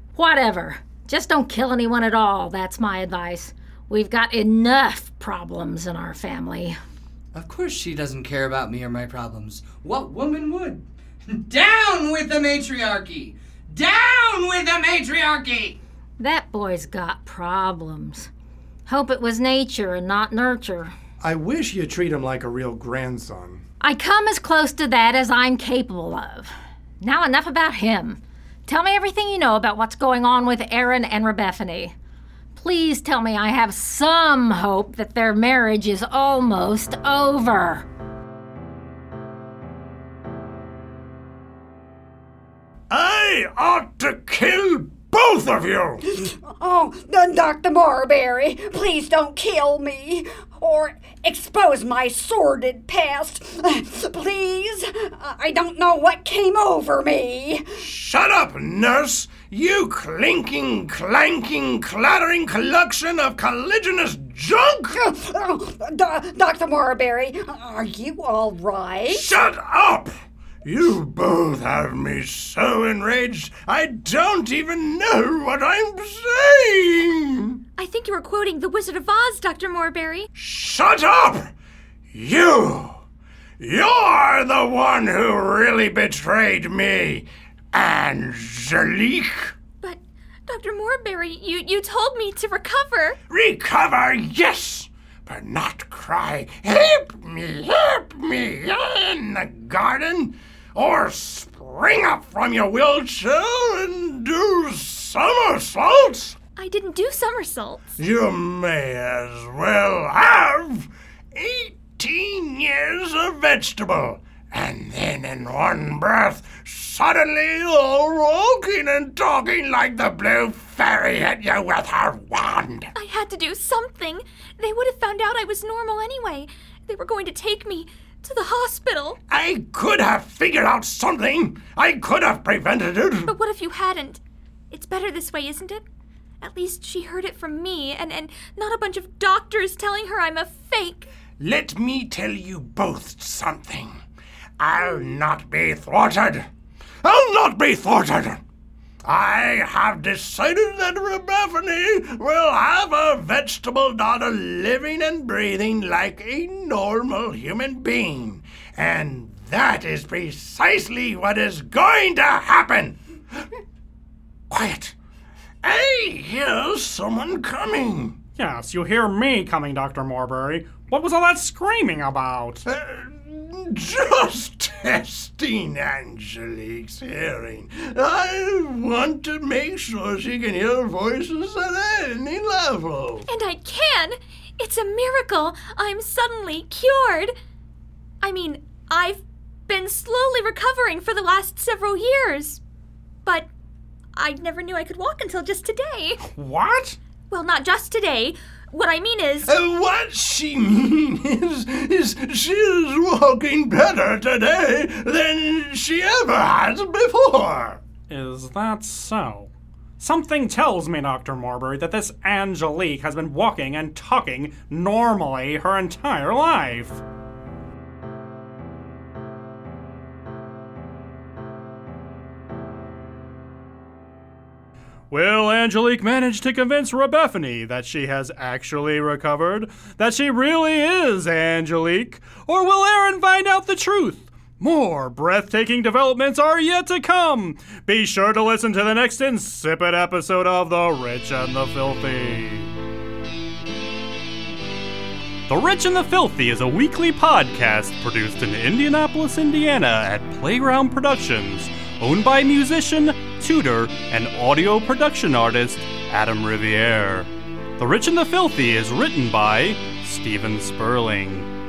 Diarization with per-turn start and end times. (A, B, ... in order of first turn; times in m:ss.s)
0:00.1-0:06.8 A
0:07.4-0:15.8 B
0:16.2-0:18.3 A
0:18.9-0:20.9 A
0:21.2-0:23.6 C
0:23.8-0:31.9 A
0:32.6-0:37.9 A
0:42.9-0:46.0 C
0:46.1-0:57.7 D
0:57.8-1:05.0 C
1:05.0-1:09.3 D
1:09.1-1:10.1 C
1:10.6-1:17.6 C
1:17.8-1:20.2 E
1:20.4-1:21.5 C
1:22.1-1:23.0 C
1:23.6-1:29.5 C
1:29.8-1:33.2 E
1:33.3-1:46.4 C
1:46.6-1:47.8 E
1:48.0-2:02.9 C
2:03.0-2:09.2 E
2:09.3-2:13.4 C
2:13.3-2:14.2 E
2:14.7-2:15.8 E
2:16.4-2:21.1 E
2:21.4-2:24.0 C
2:24.6-2:26.5 C
2:27.0-2:28.4 C
2:29.0-2:43.0 C
2:44.5-2:45.0 C
2:45.6-2:48.2 C
2:48.4-2:52.6 F
2:52.7-3:03.3 C
3:03.3-3:07.3 E
3:08.2-3:12.6 E
3:14.2-3:16.2 E
3:16.3-3:17.0 F
3:17.3-3:19.5 E
3:19.4-3:27.8 C
3:28.1-3:37.0 F
3:45.1-4:02.7 F
4:05.5-4:21.5 F